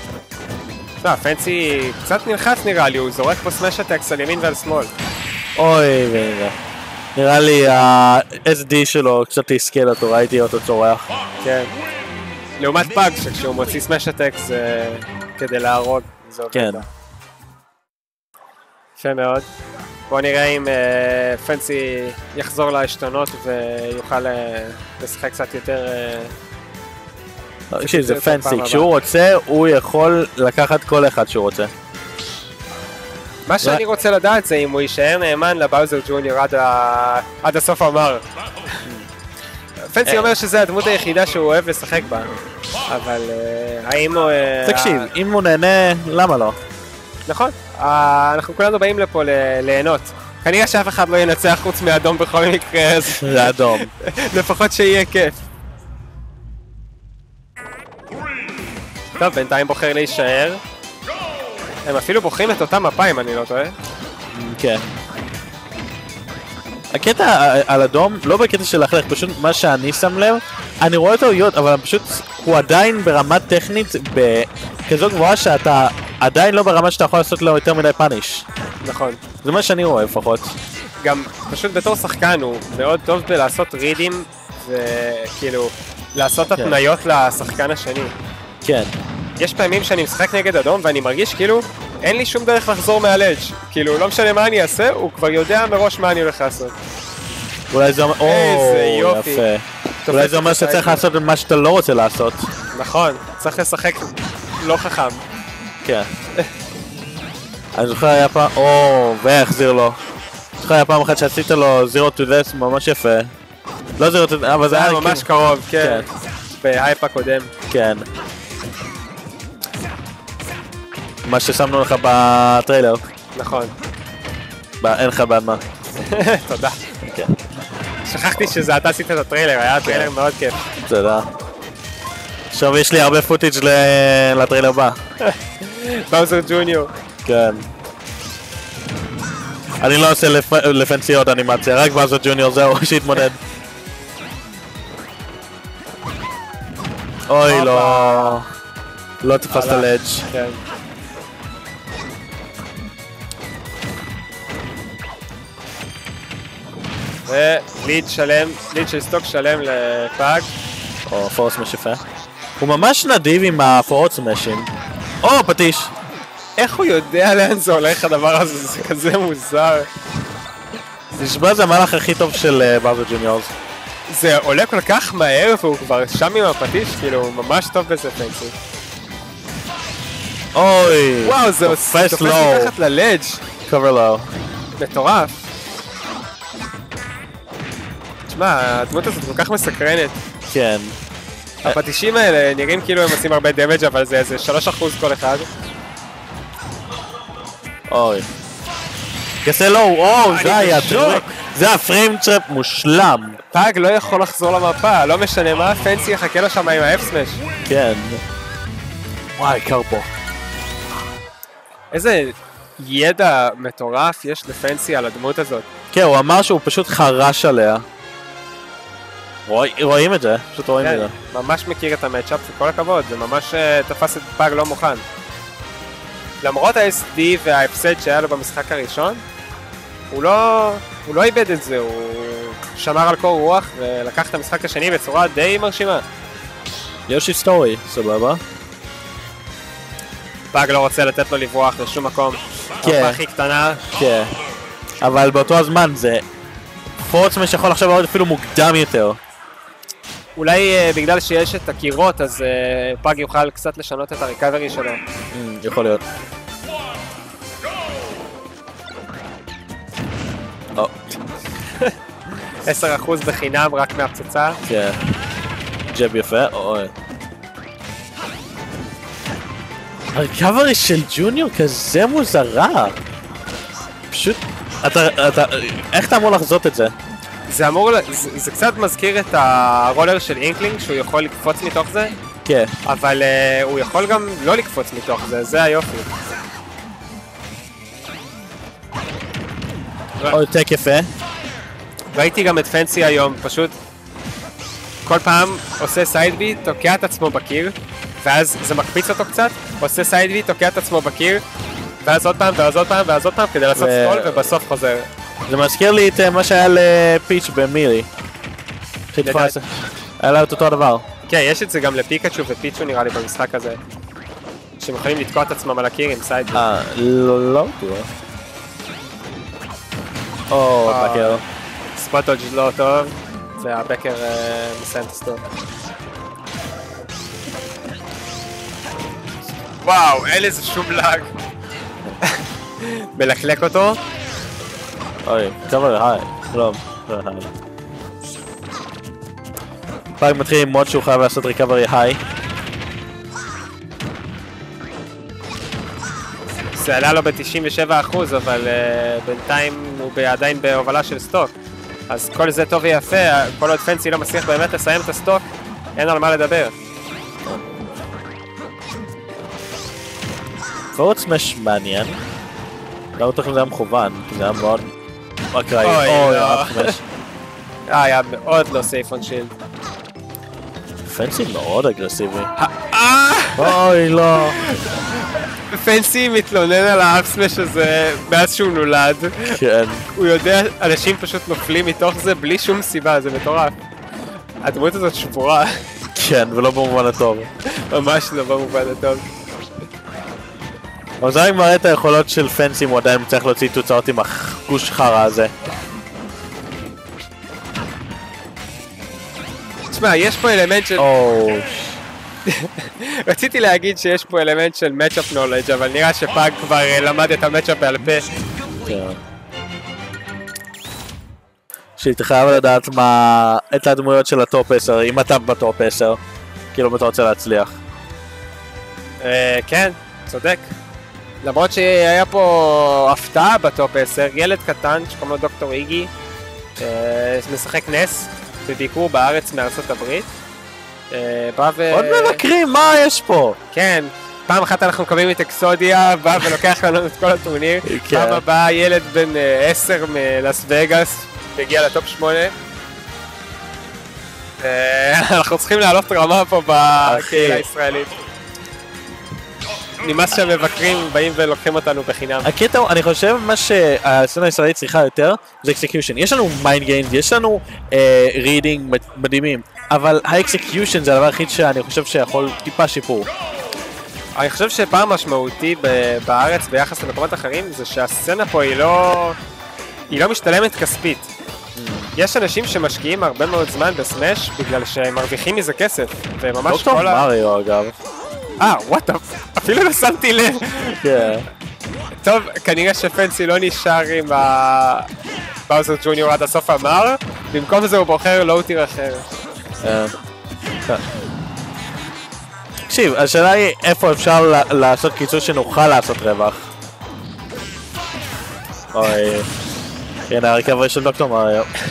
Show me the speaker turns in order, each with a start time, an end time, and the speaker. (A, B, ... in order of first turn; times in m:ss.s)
0:01.0-0:04.9 A
0:05.6-0:06.6 B
0:07.2-0:11.1 B
0:11.4-0:11.7 A
0:12.6-0:16.9 A
0:16.5-0:16.8 B
0:19.0-0:19.5 A
0:20.1-0:26.3 A
0:27.7-0:31.7 B
0:27.8-0:28.9 A
0:33.5-0:38.2 A
0:38.8-0:39.1 B
0:39.9-0:42.3 A
0:40.1-0:40.3 B
0:42.9-0:45.1 A
0:44.6-0:46.6 B
0:47.3-0:55.4 A
0:53.2-0:53.9 B
0:59.2-1:00.6 A
1:01.8-1:03.8 A
1:04.3-1:04.9 B
1:06.9-1:18.5 B
1:18.8-1:19.2 A
1:19.4-1:20.5 B
1:21.0-1:28.1 A
1:28.6-1:29.0 B
1:29.4-1:36.8 A
1:37.7-1:42.5 B
1:38.2-1:39.4 A
1:40.0-1:41.0 A
1:42.7-1:45.2 A
1:45.8-1:46.1 B
1:47.8-1:50.0 B
1:50.6-1:53.3 B
1:54.0-1:55.3 B
1:54.7-1:56.1 A
1:55.8-1:56.1 B
1:56.6-1:57.5 A
1:57.7-1:58.1 B
2:01.2-2:03.0 B
2:03.4-2:03.7 A
2:04.8-2:05.6 B
2:06.0-2:06.8 A
2:07.0-2:07.4 B
2:08.0-2:10.6 A
2:09.8-2:10.1 B
2:10.9-2:11.3 B
2:12.5-2:15.0 B
2:15.2-2:16.9 A
2:17.2-2:17.7 B
2:19.8-2:23.4 B
2:27.3-2:28.5 B
2:27.5-2:28.4 A
2:29.2-2:30.3 B
2:29.5-2:30.6 A
2:37.3-2:40.5 A
2:41.1-2:42.0 B
2:42.6-2:44.7 B
2:45.2-2:45.9 B
2:46.6-2:49.9 A
2:51.2-2:53.5 B
2:54.1-2:58.6 A
3:00.6-3:02.7 B
3:01.2-3:03.4 A
3:03.7-3:04.3 B
3:04.8-3:05.4 A
3:08.3-3:10.2 A
3:10.5-3:11.0 B
3:11.6-3:15.5 A
3:17.9-3:18.3 B
3:19.4-3:23.4 B
3:20.3-3:21.3 A
3:23.5-3:27.4 A
3:27.7-3:28.2 B
3:29.4-3:30.1 B
3:31.9-3:35.7 A
3:35.9-3:37.8 B
3:39.5-3:41.1 B
3:40.8-3:45.0 A
3:46.4-3:49.2 A
3:50.1-3:56.0 A
3:57.1-3:58.4 B
4:00.5-4:03.8 A
4:02.8-4:03.2 B
4:03.9-4:04.3 B
4:05.0-4:06.2 B
4:07.0-4:09.2 B
4:10.4-4:15.0 A
4:15.3-4:16.0 B
4:20.8-4:21.2 B
4:22.6-4:24.6 A
4:24.6-4:25.0 B
4:25.9-4:26.9 B
4:30.1-4:33.0 B
4:34.1-4:37.0 B
4:37.5-4:42.2 A
4:42.4-4:42.8 B
4:42.8-4:46.1 A
4:50.3-4:51.1 B
4:52.1-4:53.7 A
4:55.0-5:01.4 A
5:02.0-5:05.1 A
5:03.8-5:04.5 B
5:05.5-5:08.1 B
5:09.1-5:09.7 B
5:09.2-5:09.6 A
5:10.2-5:11.0 B
5:11.3-5:13.8 A
5:14.8-5:16.6 A
5:16.5-5:18.1 B
5:20.5-5:21.4 B
5:20.9-5:21.4 A
5:22.0-5:25.4 A
5:29.8-5:31.3 A
5:32.2-5:34.0 A
5:35.3-5:37.5 B
5:40.2-5:42.2 B
5:46.8-5:51.5 A
5:52.1-5:56.8 A
6:01.0-6:02.2 B
6:03.2-6:04.9 B
6:05.5-6:07.0 B
6:05.8-6:07.0 A
6:07.9-6:09.5 A
6:11.0-6:12.5 B
6:12.6-6:13.8 A
6:13.6-6:14.6 B
6:14.4-6:19.6 A
6:19.5-6:20.1 B
6:20.1-6:23.7 A
6:24.6-6:25.8 A
6:26.1-6:27.5 B
6:27.6-6:29.4 A
6:31.2-6:35.5 B
6:39.9-6:41.1 A
6:41.0-6:42.0 B
6:42.5-6:48.3 A
6:48.8-6:49.2 B
6:52.0-6:56.2 B
6:56.7-6:57.8 B
6:59.2-7:00.7 A
7:01.4-7:06.1 A
7:06.8-7:10.3 A
7:11.1-7:12.4 A
7:11.9-7:13.6 B
7:13.7-7:22.5 A
7:17.8-7:18.4 B
7:24.6-7:28.1 A
7:27.0-7:27.6 B
7:30.0-7:32.5 A
7:32.4-7:43.3 B
7:44.4-7:49.4 A
7:50.1-7:51.3 A
7:51.8-7:52.1 B
7:52.2-7:57.3 A
7:56.6-7:58.0 B
7:58.6-8:01.3 A
8:01.0-8:01.5 B
8:02.2-8:05.1 A
8:05.7-8:09.3 A
8:09.8-8:10.1 B
8:12.9-8:16.7 B
8:18.9-8:19.5 B
8:20.3-8:21.7 B